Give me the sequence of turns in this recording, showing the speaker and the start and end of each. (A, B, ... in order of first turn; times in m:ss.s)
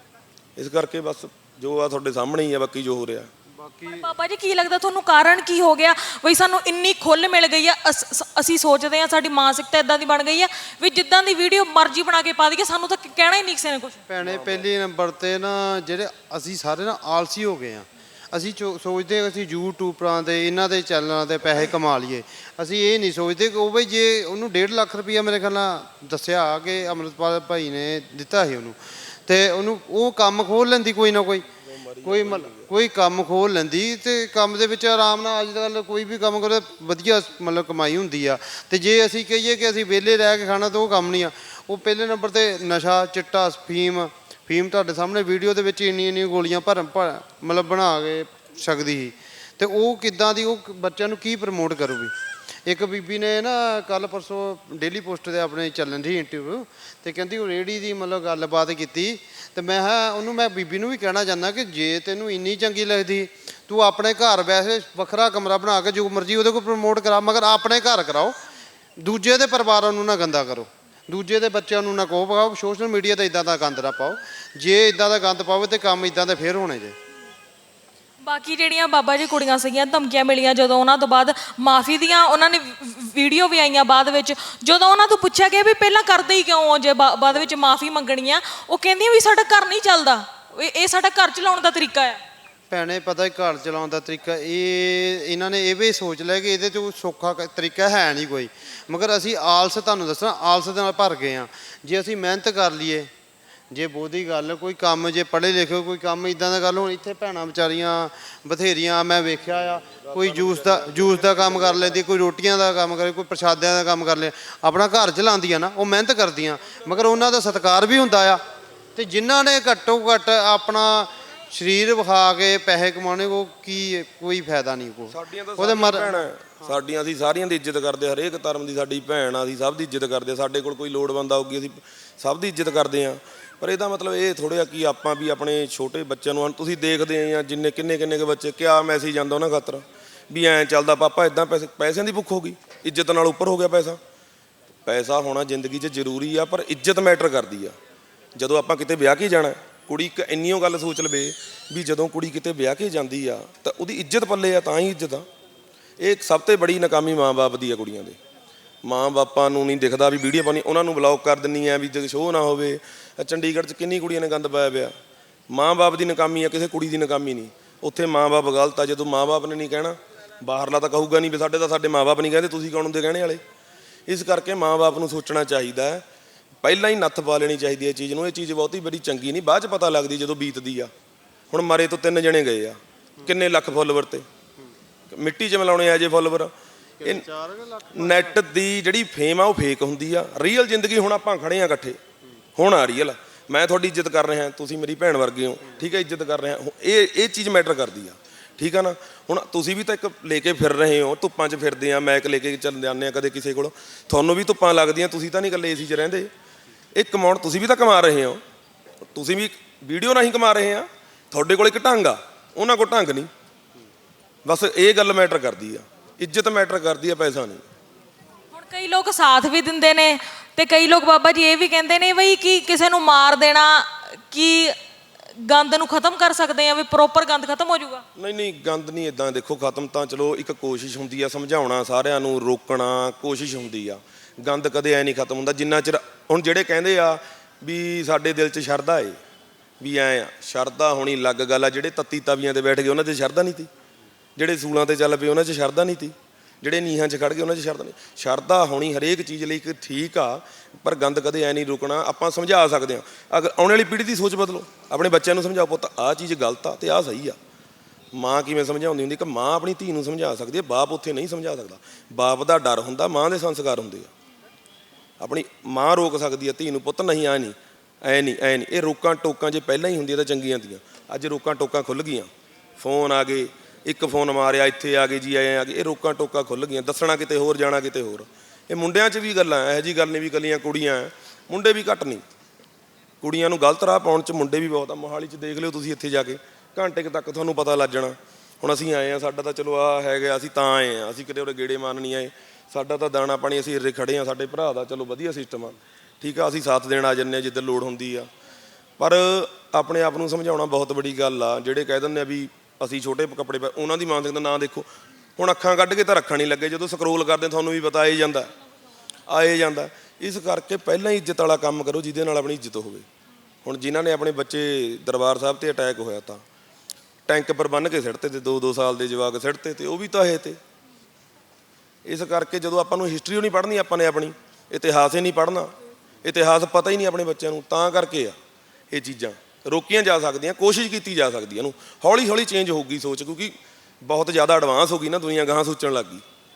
0:00.6-0:03.3 A
0:03.5-0:04.1 B
0:03.9-0:14.0 C
0:14.1-0:31.5 B
0:14.2-0:14.6 A
0:31.6-0:32.7 A
0:32.0-0:52.1 B
0:52.6-1:08.4 B
1:09.0-1:17.0 B
1:18.2-1:32.2 C
1:32.7-1:43.1 B
1:43.7-1:58.4 B
1:49.8-1:51.9 A
1:58.9-2:06.2 B
2:05.1-2:24.0 A
2:24.8-2:27.8 A
2:28.4-2:35.2 A
2:36.0-2:38.2 A
2:38.8-2:44.9 A
2:45.5-2:53.4 A
2:54.1-2:56.0 A
2:56.6-3:00.9 A
3:01.5-3:04.2 A
3:05.1-3:06.5 A
3:07.0-3:08.4 B
3:07.9-3:12.0 A
3:12.6-3:26.3 A
3:26.9-3:28.4 A
3:29.1-3:33.3 A
3:34.4-3:37.6 A
3:38.5-3:44.8 C
3:45.4-3:48.0 C
3:48.2-3:59.2 A
3:59.8-4:03.7 A
4:04.4-4:17.4 A
4:18.1-4:24.1 A
4:25.2-4:42.2 A
4:43.2-4:58.3 A
4:59.0-5:08.5 A
5:09.3-5:13.1 A
5:13.6-5:16.4 A
5:17.3-5:20.6 A
5:22.0-5:25.7 A
5:26.2-5:28.4 A
5:28.9-5:36.2 A